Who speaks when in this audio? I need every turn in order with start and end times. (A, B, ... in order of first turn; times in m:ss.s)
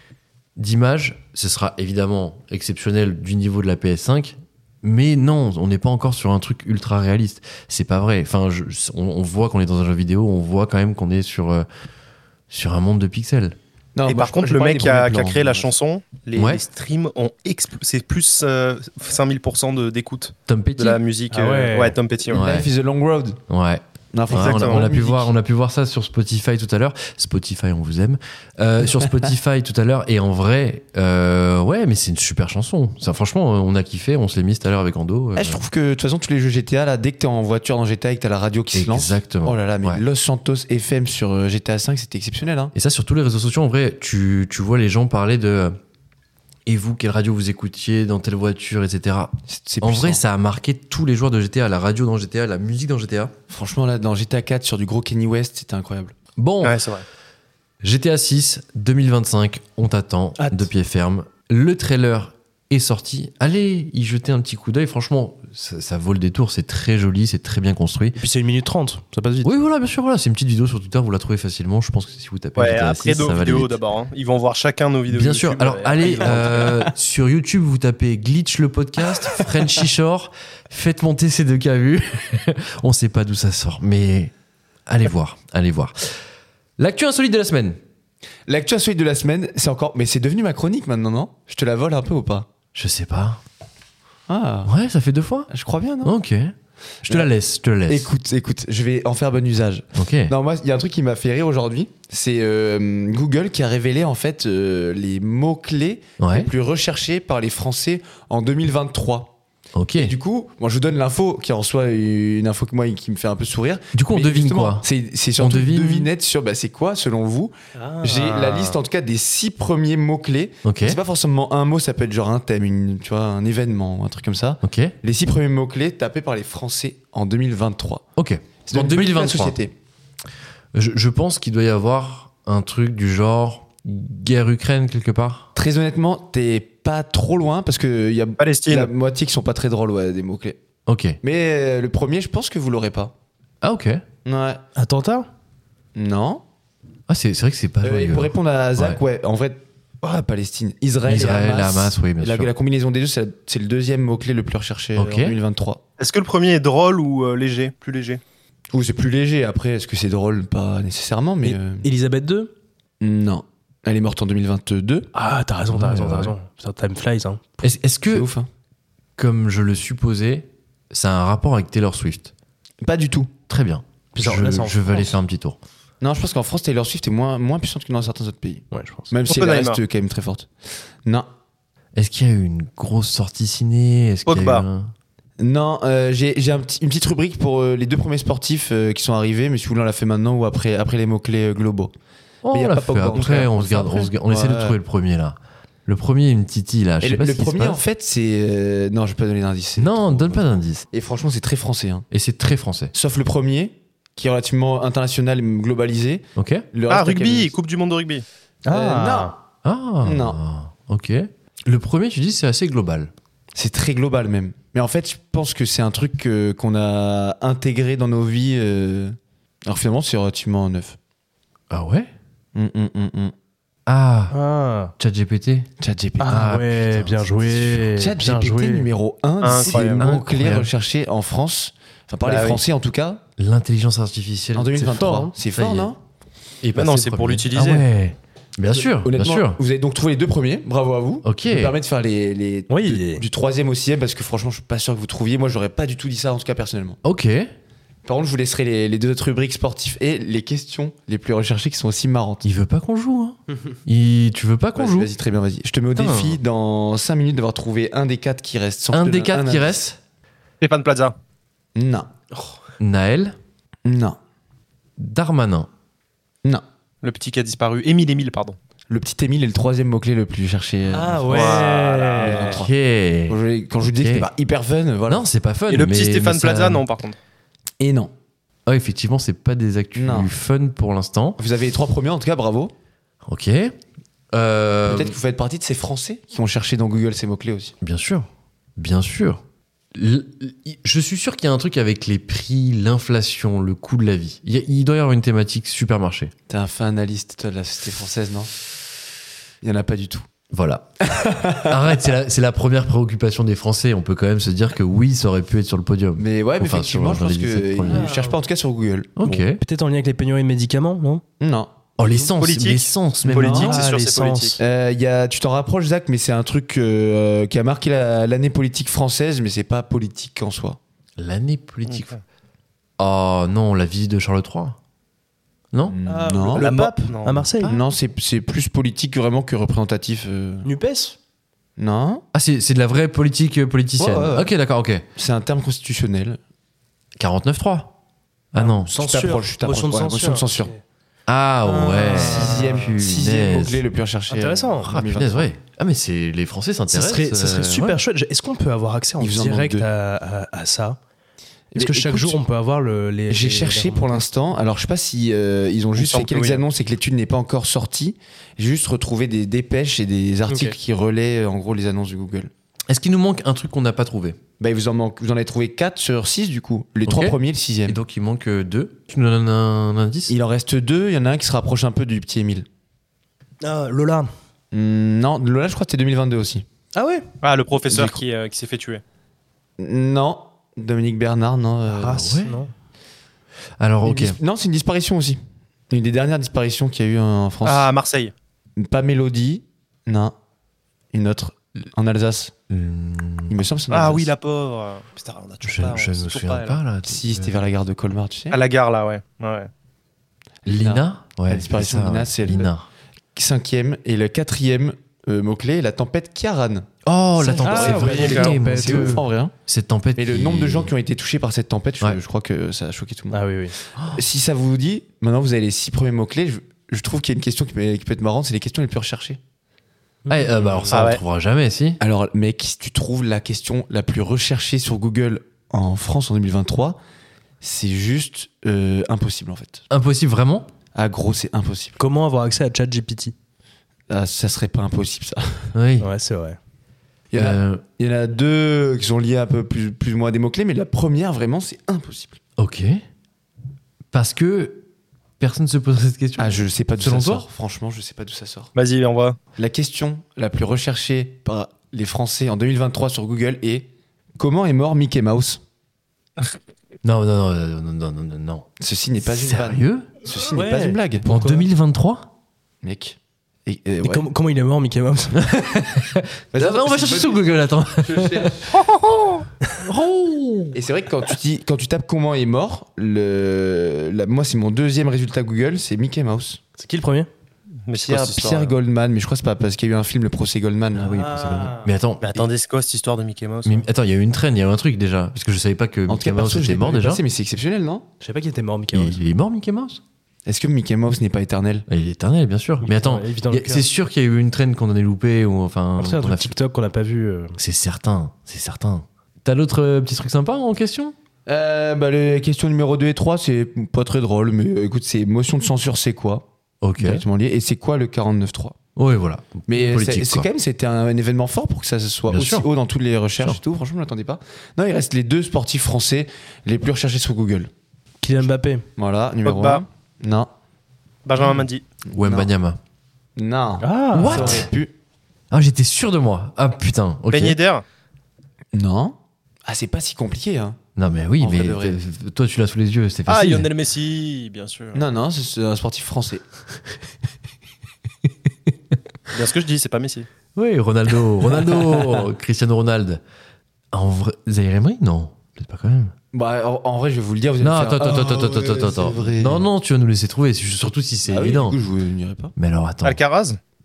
0:00.6-0:11.7 A
0:12.5-0:13.6 A
0:14.0-0:15.7 B
0:14.1-0:22.5 C
0:16.4-0:16.6 A
0:20.5-0:21.0 A
0:21.3-0:22.0 D
0:22.3-0:23.4 B
0:22.3-0:22.7 A
0:23.5-0:35.6 A
0:24.1-0:25.3 B
0:24.3-0:24.9 C
0:35.4-0:42.7 B
0:38.7-0:40.0 A
0:42.7-0:45.8 A
0:46.7-0:53.3 A
0:49.5-0:50.2 B
0:53.5-0:56.2 B
0:56.4-0:56.8 A
0:56.6-0:57.0 C
0:57.8-1:08.2 A
1:00.4-1:00.6 D
1:08.2-1:09.5 D
1:09.4-1:13.8 A
1:12.6-1:16.7 C
1:15.1-1:24.3 A
1:24.9-1:26.2 A
1:26.8-1:27.8 A
1:28.5-1:32.5 B
1:32.7-1:33.4 A
1:34.3-1:34.7 B
1:34.6-1:35.5 A
1:35.5-1:36.2 B
1:36.0-1:38.1 A
1:37.9-1:49.4 B
1:40.0-1:40.4 A
1:46.2-1:46.5 A
1:49.8-1:50.2 A
1:50.0-2:08.0 B
1:53.9-1:56.1 A
1:57.8-1:58.8 D
2:00.6-2:01.0 A
2:04.6-2:05.0 A
2:08.2-2:09.6 A
2:08.7-2:09.7 B
2:10.7-2:15.5 A
2:15.6-2:20.6 B
2:18.4-2:18.9 C
2:20.9-2:21.2 A
2:21.2-2:23.1 B
2:23.6-2:24.0 A
2:24.2-2:24.6 B
2:24.8-2:25.3 D
2:26.0-2:26.4 B
2:27.1-2:29.0 A
2:27.8-2:35.8 B
2:31.0-2:32.5 A
2:35.0-2:35.4 A
2:36.0-2:38.2 C
2:38.7-2:41.9 B
2:41.4-2:42.5 D
2:43.0-2:45.1 B
2:45.2-2:47.6 D
2:45.7-2:46.3 A
2:47.6-2:48.3 A
2:48.1-2:48.5 B
2:49.2-2:52.3 A
2:52.8-2:53.3 B
2:53.5-2:55.6 A
2:54.2-2:55.2 D
2:56.0-3:00.5 B
2:58.7-2:59.1 D
2:59.3-2:59.8 C
3:02.0-3:04.9 A
3:04.3-3:04.6 C
3:05.4-3:11.9 B
3:12.4-3:17.8 A
3:12.5-3:14.8 B
3:17.0-3:22.1 B
3:19.8-3:20.9 A
3:22.1-3:22.9 A
3:22.9-3:27.5 B
3:26.4-3:26.7 A
3:26.9-3:28.2 C
3:28.6-3:29.3 D
3:28.7-3:29.3 B
3:29.6-3:33.1 A
3:30.0-3:30.4 B
3:33.6-3:41.0 B
3:41.7-3:42.1 A
3:42.6-3:43.3 B
3:43.9-3:44.4 A
3:44.3-3:44.9 D
3:45.0-3:45.7 A
3:45.8-3:46.5 B
3:46.2-3:48.9 D
3:46.2-3:47.9 A
3:48.0-3:53.2 B
3:49.4-3:50.1 C
3:49.5-3:50.7 A
3:52.2-3:52.6 C
3:53.4-3:55.9 A
3:54.6-3:56.0 B
3:54.8-3:55.3 D
3:56.6-3:59.6 A
3:56.8-3:57.8 C
3:58.7-4:07.0 B
4:01.2-4:01.7 A
4:02.7-4:03.2 D
4:07.0-4:07.5 A
4:08.1-4:12.5 B
4:12.4-4:15.1 A
4:14.8-4:19.8 B
4:16.0-4:16.4 A
4:18.9-4:20.0 A
4:20.6-4:21.2 C
4:21.8-4:22.1 B
4:22.8-4:23.4 A
4:23.8-4:24.2 B
4:25.0-4:25.7 A
4:27.0-4:28.6 C
4:28.9-4:32.7 B
4:30.9-4:32.6 D
4:31.3-4:31.8 C
4:32.4-4:34.3 A
4:33.3-4:35.3 B
4:35.1-4:36.8 A
4:35.7-4:37.2 C
4:37.8-4:38.1 B
4:38.7-4:41.4 A
4:40.0-4:40.3 B
4:41.4-4:42.7 B
4:43.2-4:43.8 A
4:44.3-4:45.2 A
4:44.9-4:47.7 B
4:47.8-4:49.4 A
4:49.9-4:56.3 A
4:56.5-4:58.5 B
4:59.6-5:00.3 B
5:00.5-5:08.1 A
5:01.1-5:02.0 B
5:06.2-5:09.4 B
5:07.9-5:08.3 D
5:09.2-5:09.6 A
5:09.6-5:11.2 D
5:11.4-5:11.7 B
5:12.0-5:13.8 A
5:12.4-5:14.6 C
5:13.4-5:13.8 B
5:13.4-5:14.6 D
5:14.6-5:20.8 B
5:21.2-5:22.2 A
5:21.9-5:22.2 C
5:23.0-5:24.8 A
5:25.8-5:26.9 B
5:26.1-5:27.8 D
5:26.6-5:27.4 C
5:27.6-5:27.9 A
5:27.6-5:30.7 B
5:30.6-5:31.2 D
5:31.8-5:32.2 B
5:32.3-5:35.1 A
5:34.0-5:34.5 B
5:35.2-5:36.4 B
5:37.2-5:38.0 A
5:38.5-5:38.9 A
5:38.6-5:40.7 B
5:38.9-5:40.8 D
5:41.3-5:43.8 A
5:41.8-5:42.7 D
5:42.1-5:45.5 B
5:44.3-5:44.9 D
5:44.8-5:48.0 A
5:46.9-5:51.0 D
5:49.2-5:49.9 B
5:51.7-5:52.4 B
5:51.8-5:54.2 D
5:53.3-6:02.5 B
5:56.0-5:56.6 C
6:00.5-6:00.8 D
6:02.9-6:04.4 A
6:04.6-6:08.0 B
6:07.0-6:10.4 A
6:10.3-6:12.7 B
6:13.6-6:14.3 D
6:14.7-6:16.6 B
6:17.0-6:17.2 D
6:17.4-6:19.0 C
6:17.9-6:18.2 B
6:19.8-6:22.4 B
6:21.9-6:22.7 D
6:22.0-6:22.7 A
6:23.8-6:24.4 A
6:24.0-6:27.9 B
6:27.6-6:28.3 C
6:28.8-6:30.3 B
6:31.1-6:32.5 B
6:32.7-6:33.6 A
6:33.5-6:34.3 B
6:33.9-6:36.8 C
6:35.6-6:37.6 A
6:37.1-6:38.6 B
6:38.5-6:39.7 C
6:40.6-6:42.7 B
6:40.6-6:42.9 A
6:43.4-6:46.9 B
6:47.0-6:50.9 A
6:47.4-6:49.5 B
6:47.6-6:49.2 D
6:48.2-6:48.5 C
6:50.2-6:53.4 B
6:53.3-6:53.8 D
6:54.0-6:54.2 A
6:54.1-6:59.4 B
7:00.2-7:00.9 D
7:00.3-7:02.0 A
7:00.9-7:01.2 C
7:02.0-7:07.0 B
7:07.6-7:09.8 B
7:09.9-7:10.7 A
7:11.0-7:12.0 B
7:12.0-7:13.3 D
7:14.1-7:15.7 B
7:15.7-7:16.1 A
7:16.0-7:16.6 D
7:17.3-7:22.4 B
7:17.3-7:17.8 A
7:22.6-7:23.0 A
7:24.1-7:24.9 A
7:25.4-7:27.5 A
7:26.4-7:28.7 B
7:28.8-7:29.4 C
7:29.6-7:35.6 B
7:37.0-7:38.7 A
7:38.8-7:41.3 B
7:39.2-7:40.1 A
7:40.5-7:41.7 D
7:41.2-7:42.3 A
7:42.8-7:44.3 B
7:44.0-7:45.5 D
7:45.4-7:48.6 A
7:46.5-7:48.7 B
7:48.9-7:49.2 C
7:49.8-7:50.8 A
7:50.7-7:56.6 B
7:56.8-7:57.3 D
7:57.9-7:58.8 C
7:58.0-8:01.8 B
8:01.1-8:01.8 D
8:01.8-8:02.5 A
8:02.2-8:03.8 C
8:03.6-8:07.2 A
8:06.1-8:08.1 B
8:08.2-8:09.2 D
8:08.9-8:10.0 A
8:10.5-8:11.9 B
8:11.9-8:16.6 A
8:12.8-8:13.9 D
8:16.0-8:17.6 D
8:17.6-8:21.2 A
8:21.5-8:26.5 B
8:26.8-8:27.2 A
8:27.0-8:28.8 B
8:29.0-8:30.5 A
8:29.7-8:37.7 B
8:32.3-8:32.7 A
8:38.2-8:38.8 D
8:39.0-8:40.5 B
8:39.4-8:39.8 C
8:41.3-8:41.8 C
8:42.1-8:42.8 A
8:42.1-8:42.5 B
8:43.4-8:44.9 B
8:43.8-8:44.7 D
8:44.1-8:44.7 A
8:45.5-8:47.6 A
8:47.3-8:47.8 C
8:48.7-8:50.8 B
8:51.0-8:53.7 A
8:51.4-8:52.0 B
8:53.3-8:55.0 C
8:54.9-8:56.4 B
8:59.3-9:00.3 C
9:00.6-9:03.2 A
9:03.9-9:06.1 A
9:06.3-9:09.7 B
9:07.6-9:11.8 A
9:11.3-9:12.5 B
9:12.6-9:13.2 A
9:13.0-9:13.6 C